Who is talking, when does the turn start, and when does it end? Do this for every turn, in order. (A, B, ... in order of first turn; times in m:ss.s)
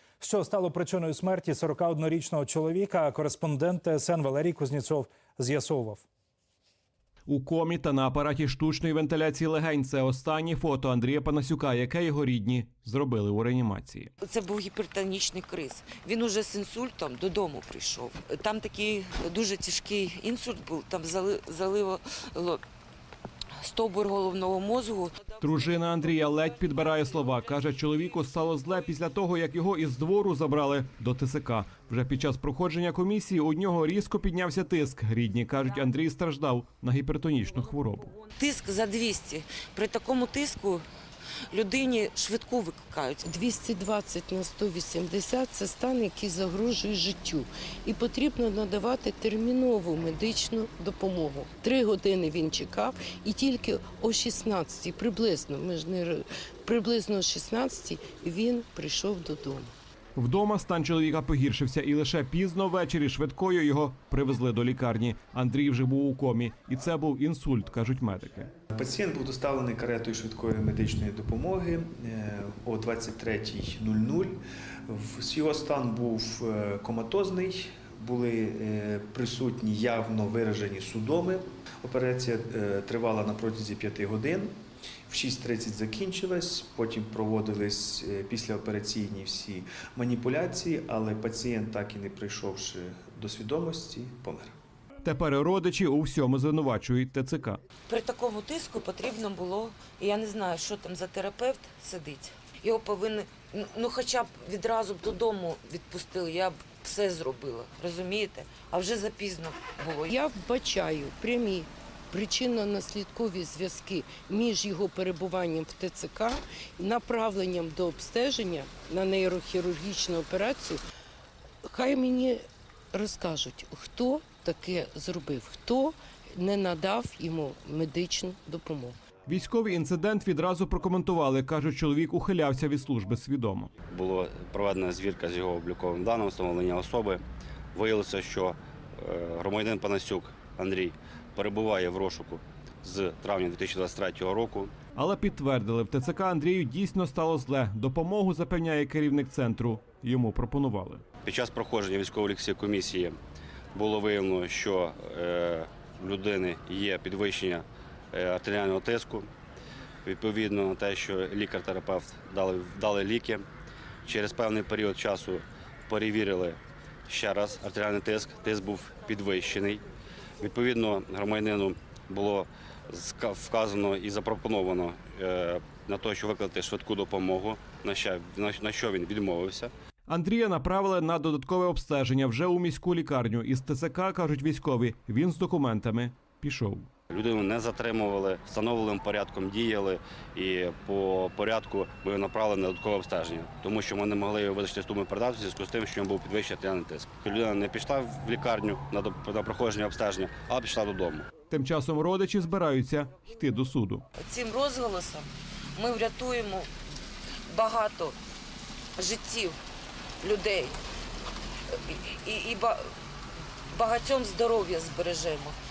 0:00.2-0:06.1 A
0:07.3-0:14.1 B
0:14.2-0:22.6 C
0:23.6-0:25.4 C
0:25.4-0:38.1 B
0:38.3-0:40.9 C
0:41.5-0:43.2 C
0:43.2-0:59.7 D
1:00.2-1:08.5 B
1:08.7-1:24.6 E
1:25.1-1:34.5 E
1:35.0-1:37.6 B
1:37.9-1:50.1 C
1:50.1-2:00.8 D
2:01.6-2:09.0 D
2:09.3-2:13.7 B
2:13.9-2:17.2 F
2:17.7-2:24.7 F
2:25.0-2:31.0 B
2:31.2-2:33.2 F
2:33.7-2:39.3 F
2:40.0-2:43.4 F
2:44.0-2:49.8 F
2:50.4-2:59.7 F
3:00.1-3:06.9 B
3:07.1-3:21.3 F
3:21.5-3:24.0 B
3:24.2-3:26.7 C
3:27.5-3:28.2 C
3:29.0-3:29.6 C
3:30.2-3:30.8 C
3:31.7-3:32.8 C
3:33.7-3:35.6 C